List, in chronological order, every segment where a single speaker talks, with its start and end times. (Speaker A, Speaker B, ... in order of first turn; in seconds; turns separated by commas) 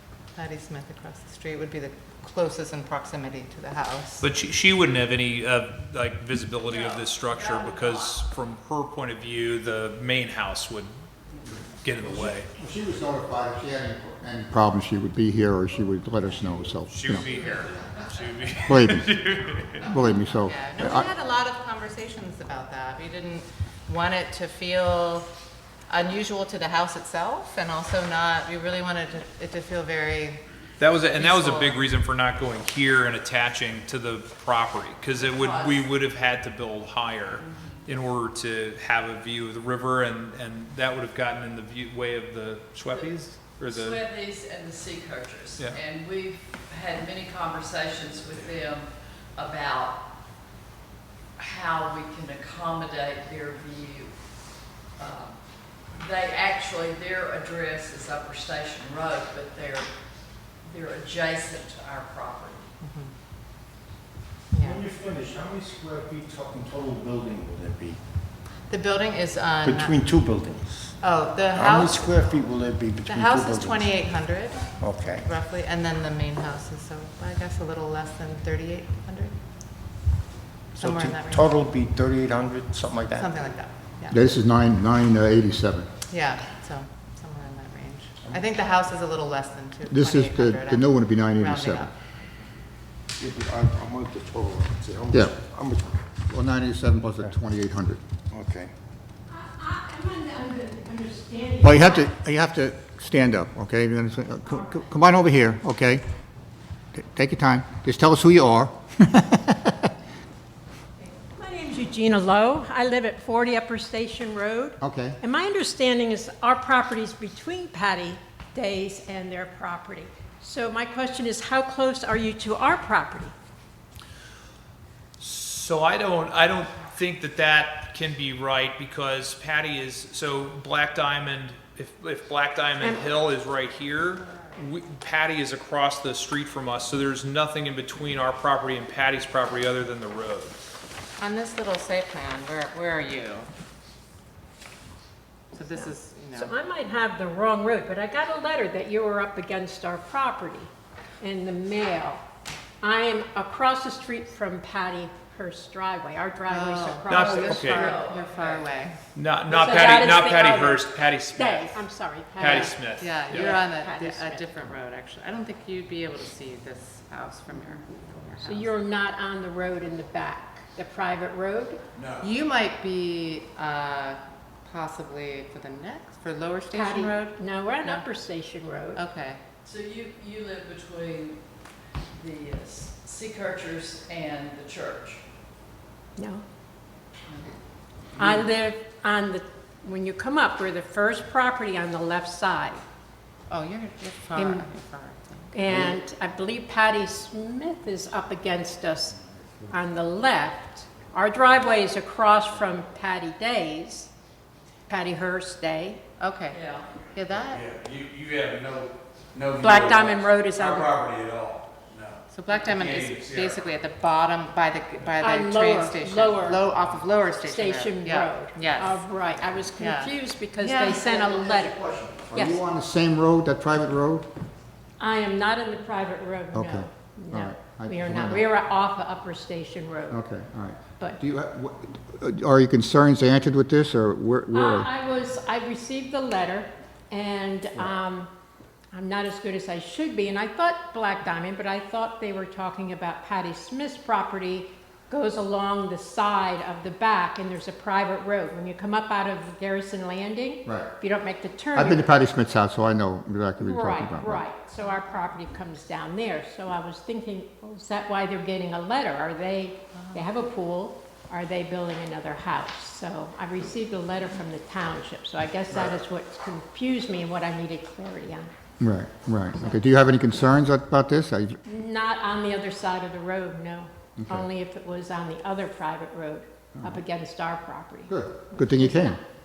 Speaker A: 0.3-4.3, Speaker B: 4.2-10.9, Speaker C: 6.6-8.2, Speaker B: 11.8-12.5, Speaker D: 12.0-17.3, Speaker B: 16.9-19.9, Speaker D: 18.7-19.1, Speaker D: 19.8-21.1, Speaker A: 20.4-25.3, Speaker A: 25.9-30.4, Speaker B: 30.8-44.0, Speaker A: 31.1-31.8, Speaker C: 35.2-35.9, Speaker C: 37.4-37.8, Speaker C: 42.9-50.0, Speaker C: 51.4-54.1, Speaker C: 55.0-59.9, Speaker C: 60.6-62.7, Speaker A: 62.8-63.1, Speaker A: 64.5-64.8, Speaker E: 64.6-68.0, Speaker A: 68.7-70.0, Speaker E: 69.6-71.0, Speaker A: 71.0-72.4, Speaker E: 71.5-74.0, Speaker A: 73.0-79.3, Speaker E: 74.8-75.3, Speaker E: 80.7-83.5, Speaker A: 80.8-81.5, Speaker A: 83.2-84.2, Speaker D: 84.1-85.9, Speaker A: 86.1-91.9, Speaker D: 89.9-91.9, Speaker E: 93.2-95.9, Speaker D: 96.3-98.0, Speaker E: 98.3-98.7, Speaker F: 99.3-102.1, Speaker D: 101.6-106.0, Speaker F: 104.5-104.8, Speaker D: 106.9-109.8, Speaker F: 111.4-123.3, Speaker D: 114.8-115.2, Speaker B: 125.2-140.6, Speaker A: 134.2-134.6, Speaker A: 141.2-143.5, Speaker A: 145.5-146.5, Speaker F: 145.8-150.7, Speaker F: 151.2-152.2, Speaker F: 152.8-158.0, Speaker A: 156.5-159.0, Speaker B: 157.1-157.9, Speaker C: 157.7-158.7, Speaker B: 159.2-161.8, Speaker F: 159.5-164.4, Speaker A: 159.6-160.2, Speaker B: 162.4-163.6, Speaker A: 162.4-168.7, Speaker F: 168.4-171.8, Speaker A: 172.2-178.0, Speaker F: 176.7-179.0, Speaker A: 178.9-179.4, Speaker C: 179.7-181.4, Speaker C: 182.1-185.2, Speaker F: 186.2-186.4, Speaker C: 187.3-187.6, Speaker F: 188.2-192.8, Speaker A: 193.5-195.9, Speaker F: 194.4-194.7, Speaker F: 195.5-199.2, Speaker F: 199.7-204.1, Speaker F: 204.9-206.0, Speaker A: 206.2-206.6, Speaker C: 206.5-206.9, Speaker A: 207.1-207.7, Speaker G: 207.5-213.6, Speaker F: 209.6-211.0, Speaker A: 212.3-219.0, Speaker F: 215.2-216.7, Speaker F: 217.4-221.8, Speaker A: 219.8-221.1, Speaker D: 221.1-224.3, Speaker F: 222.3-222.6, Speaker F: 225.0-230.2, Speaker D: 226.5-228.4, Speaker D: 230.1-234.9, Speaker F: 234.5-238.3, Speaker F: 238.9-252.1, Speaker D: 251.7-254.4, Speaker F: 253.6-268.5, Speaker D: 268.8-271.6, Speaker F: 271.6-279.2, Speaker D: 274.2-274.5, Speaker D: 278.1-279.2